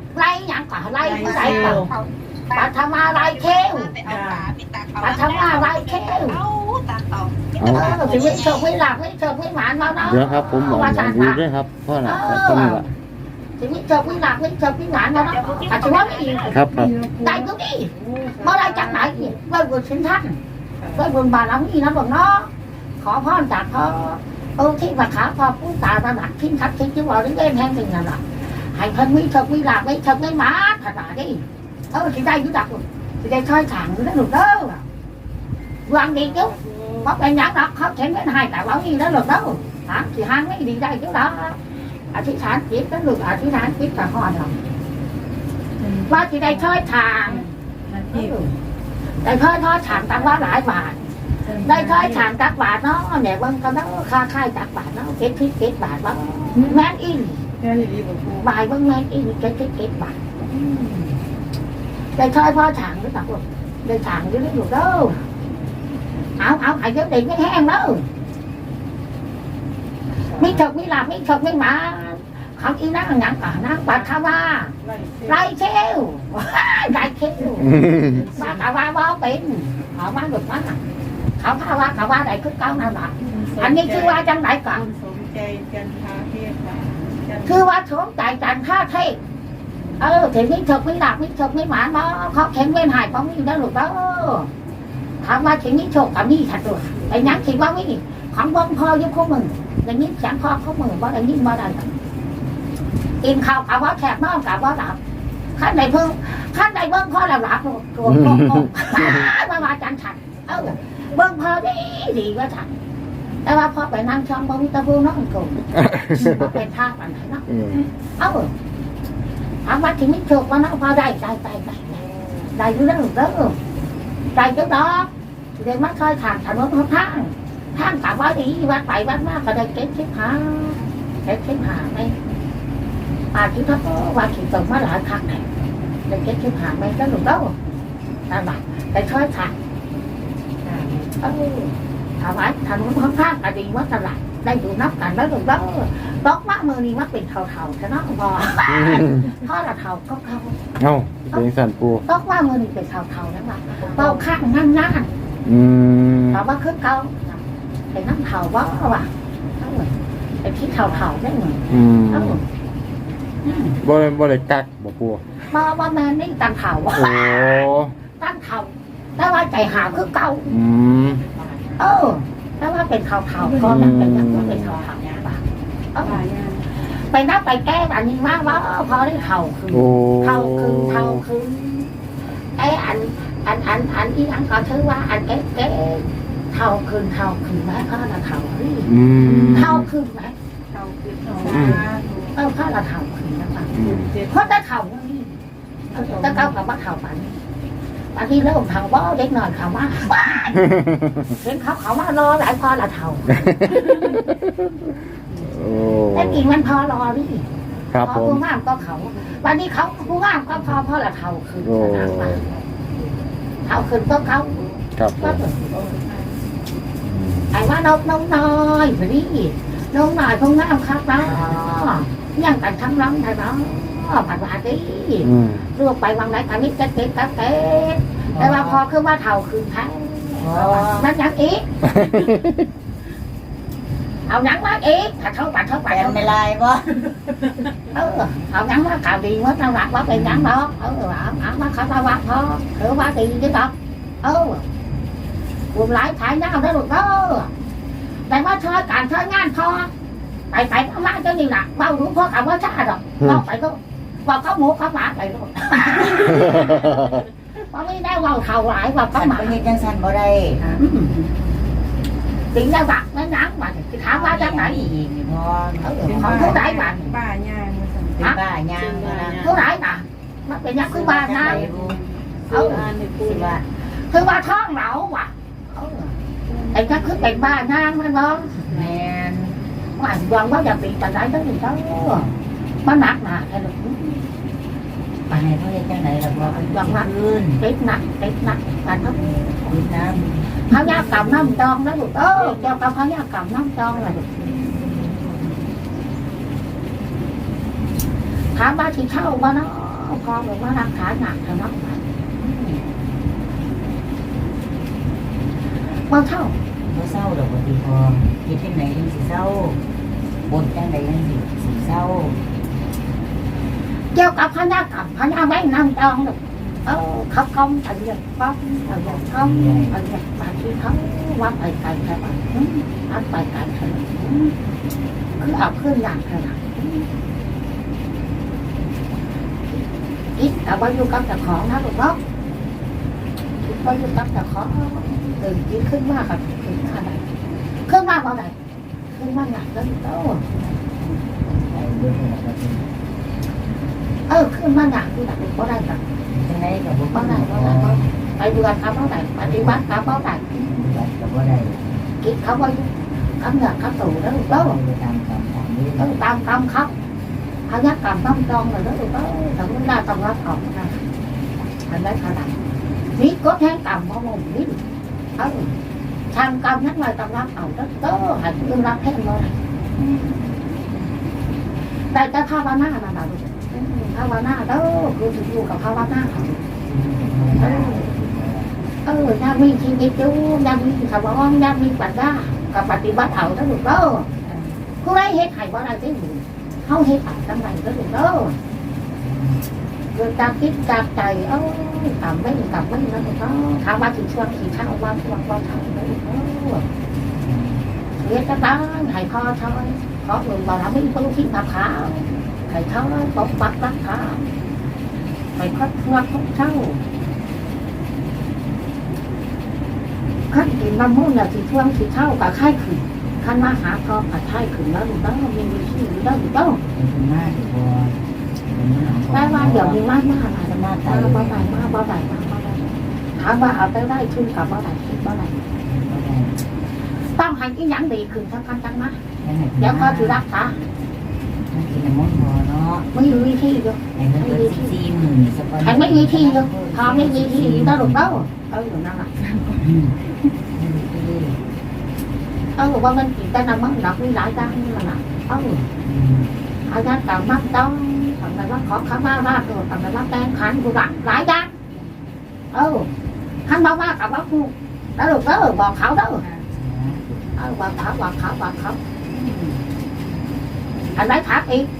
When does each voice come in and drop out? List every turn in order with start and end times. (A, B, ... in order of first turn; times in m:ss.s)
0:00.1-0:01.8 A
0:01.0-0:01.9 B
0:01.1-0:08.7 C
0:02.5-0:04.0 A
0:04.0-0:04.5 B
0:05.0-0:06.4 A
0:07.6-0:08.0 D
0:07.7-0:11.4 A
0:10.0-0:12.9 D
0:12.0-0:12.9 A
0:13.6-0:16.6 A
0:15.1-0:16.6 C
0:16.5-0:17.0 D
0:16.7-0:19.4 B
0:17.2-0:20.4 A
0:20.9-0:34.9 A
0:35.9-0:41.6 A
0:36.3-0:37.1 B
0:42.1-0:44.6 A
0:45.8-0:48.4 B
0:46.1-0:48.6 A
0:49.2-0:51.0 A
0:50.0-0:50.5 B
0:51.4-0:52.3 B
0:51.6-0:57.4 A
0:56.6-0:56.9 B
0:57.6-0:58.5 B
0:58.4-1:01.0 A
1:02.2-1:05.2 A
1:06.4-1:08.1 A
1:10.2-1:10.6 B
1:10.4-1:14.7 A
1:13.9-1:14.2 B
1:14.8-1:15.5 B
1:15.3-1:20.8 A
1:17.8-1:18.2 D
1:17.9-1:18.6 B
1:21.4-1:24.8 A
1:23.3-1:27.6 B
1:27.5-1:29.2 A
1:29.8-1:30.0 B
1:30.0-1:34.5 A
1:35.2-1:41.9 A
1:43.2-1:45.0 A
1:45.6-1:52.7 A
1:53.4-1:57.5 A
1:55.8-1:56.6 D
1:57.5-1:57.8 D
1:58.2-1:58.5 A
1:59.6-2:03.6 A
2:04.3-2:12.1 A
2:13.3-2:15.5 A
2:16.1-2:17.6 A
2:18.3-2:19.6 A
2:20.6-2:21.1 B
2:21.2-2:30.6 A
2:28.7-2:29.3 D
2:30.8-2:32.0 D
2:32.1-2:35.1 A
2:35.4-2:36.4 D
2:36.3-2:37.4 A
2:37.9-2:42.4 A
2:41.7-2:42.4 D
2:43.4-2:43.8 A
2:43.8-2:45.2 D
2:45.5-2:50.5 A
2:46.9-2:47.9 D
2:50.5-2:51.2 D
2:51.8-2:55.4 A
2:53.4-2:53.8 B
2:53.6-2:54.8 D
2:55.9-2:56.2 A
2:56.0-2:56.7 B
2:56.8-3:01.9 A
2:59.7-3:01.2 D
3:02.6-3:08.9 A
3:08.9-3:09.9 D
3:09.3-3:09.6 B
3:09.5-3:10.4 A
3:10.7-3:12.4 B
3:11.5-3:11.8 D
3:11.5-3:11.8 A
3:12.3-3:13.7 A
3:13.8-3:14.1 D
3:13.8-3:14.3 B
3:14.3-3:15.4 A
3:15.9-3:16.6 B
3:15.9-3:17.4 A
3:18.1-3:20.6 A
3:20.6-3:21.3 D
3:21.4-3:23.4 A
3:23.4-3:24.8 D
3:25.4-3:26.4 D
3:26.1-3:27.5 A
3:27.9-3:28.4 D
3:28.0-3:32.6 A
3:31.6-3:32.4 D
3:33.7-3:35.7 A
3:35.0-3:35.5 D
3:35.7-3:36.4 B
3:37.0-3:37.5 D
3:37.5-3:51.7 A
3:41.2-3:41.6 E
3:45.2-3:45.7 D
3:48.3-3:48.8 E
3:50.4-3:51.1 E
3:52.0-3:52.5 D
3:54.3-3:56.3 A
3:55.9-3:57.1 E
3:57.9-4:04.7 A
4:00.1-4:00.5 E
4:05.7-4:07.5 A
4:08.3-4:09.9 A
4:10.5-4:16.9 A
4:17.7-4:19.6 A
4:19.1-4:20.8 E
4:20.7-4:21.3 B
4:20.8-4:21.1 A
4:22.5-4:24.9 A
4:24.0-4:26.7 E
4:25.8-4:27.2 A
4:26.0-4:29.6 B
4:28.2-4:29.5 E
4:29.4-4:31.7 A
4:30.8-4:32.0 E
4:31.4-4:33.6 B
4:32.5-4:32.9 A
4:33.2-4:33.6 E
4:34.1-4:36.2 A
4:36.5-4:37.7 B
4:36.7-4:38.5 A
4:38.5-4:38.9 B
4:38.7-4:39.6 E
4:40.0-4:44.3 A
4:45.3-4:47.6 E
4:46.4-4:49.8 A
4:49.6-4:51.5 E
4:50.6-4:54.2 A
4:52.4-4:52.9 B
4:54.4-4:55.5 B
4:58.6-5:02.8 A
5:06.1-5:06.6 A
5:06.8-5:09.8 E
5:10.5-5:12.4 E
5:14.1-5:24.6 A
5:16.6-5:16.8 E
5:19.0-5:20.0 E
5:25.4-5:27.1 A
5:30.3-5:32.2 A
5:33.6-5:37.3 A
5:37.9-5:38.6 A
5:39.1-5:40.4 A
5:40.5-5:42.9 E
5:44.3-5:46.0 A
5:46.3-5:48.1 E
5:47.1-5:50.8 A
5:49.4-5:49.8 E
5:50.6-5:51.8 E
5:52.2-5:54.8 A
5:54.4-5:56.2 E
5:56.0-5:56.9 A
5:57.7-6:01.0 A
6:01.9-6:02.6 A
6:03.2-6:04.8 A
6:05.4-6:05.8 A
6:06.3-6:09.6 A
6:10.0-6:10.4 E
6:12.1-6:16.6 A
6:16.7-6:18.8 E
6:17.6-6:18.1 A
6:19.0-6:24.3 A
6:24.4-6:24.8 E
6:25.0-6:28.6 A
6:29.2-6:29.6 E
6:30.1-6:36.8 A
6:37.4-6:37.9 E
6:38.2-6:44.5 A
6:45.6-6:47.0 A
6:50.5-6:56.8 A
6:56.9-7:00.0 E
6:59.3-7:05.6 A
7:00.7-7:01.8 E
7:05.8-7:06.6 E
7:07.3-7:09.2 A
7:09.4-7:10.4 E
7:09.8-7:10.8 A
7:11.7-7:13.1 E
7:13.1-7:15.0 A
7:14.2-7:18.4 E
7:15.8-7:19.3 A
7:19.4-7:19.8 B
7:19.8-7:20.2 E
7:20.7-7:21.6 E
7:22.8-7:25.9 A
7:26.0-7:26.5 E
7:26.9-7:31.7 A
7:32.7-7:33.1 A
7:33.7-7:36.4 A
7:36.4-7:37.5 E
7:37.6-7:39.0 A
7:39.4-7:39.7 E
7:41.2-7:41.9 A